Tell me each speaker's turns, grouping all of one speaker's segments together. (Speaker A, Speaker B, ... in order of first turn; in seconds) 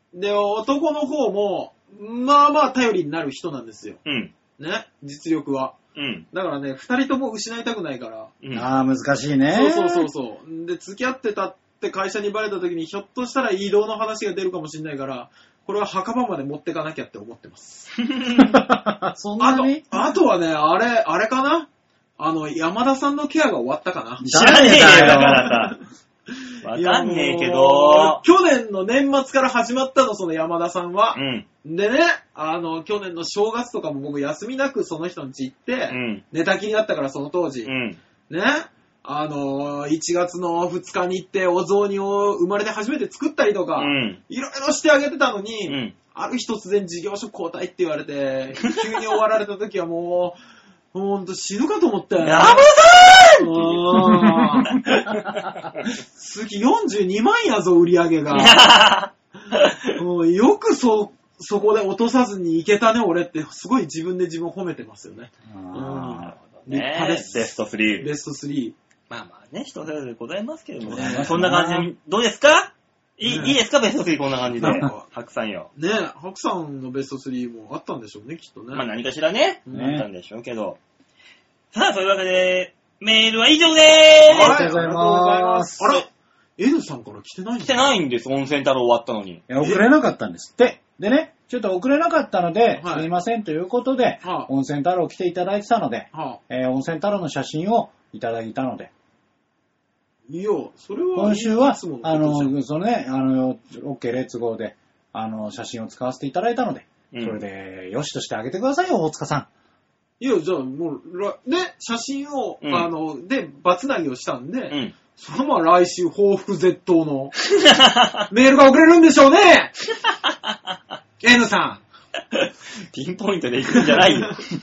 Speaker A: 0.1-4.0, 4.6-5.8, 6.3-8.3, 9.5-18.0, 19.4-25.8, 26.7-37.7, 38.3-50.4, 50.9-52.7, 53.4-55.2, 56.1-58.6, 60.0-68.8, 70.9-71.4, 73.2-73.6, 74.6-75.1, 75.8-78.9, 79.7-80.0, 84.3-86.1, 86.6-87.9, 92.8-93.1, 94.2-94.5, 96.1-96.4, 100.3-102.6, 110.2-117.4, 118.3-119.7, 121.2-121.8, 123.8-124.3
Speaker B: 4.1-4.3, 6.0-6.3, 8.4-8.7, 18.0-18.6, 24.3-25.8, 26.6-28.2, 31.1-31.5, 35.9-36.2, 37.6-38.0, 43.8-44.2, 45.7-45.9, 52.2-55.4, 58.3-60.0, 66.4-68.1, 69.1-75.7, 78.7-80.8, 81.7-84.6, 87.6-89.4, 107.1-107.4, 112.6-112.9, 117.5-118.3, 120.2-120.5, 122.3-124.4
Speaker C: 8.5-10.1, 18.4-19.9, 24.2-25.5, 65.5-66.3, 70.8-71.9, 74.6-74.9, 79.7-80.1, 84.3-85.9, 89.5-98.9, 101.2-109.5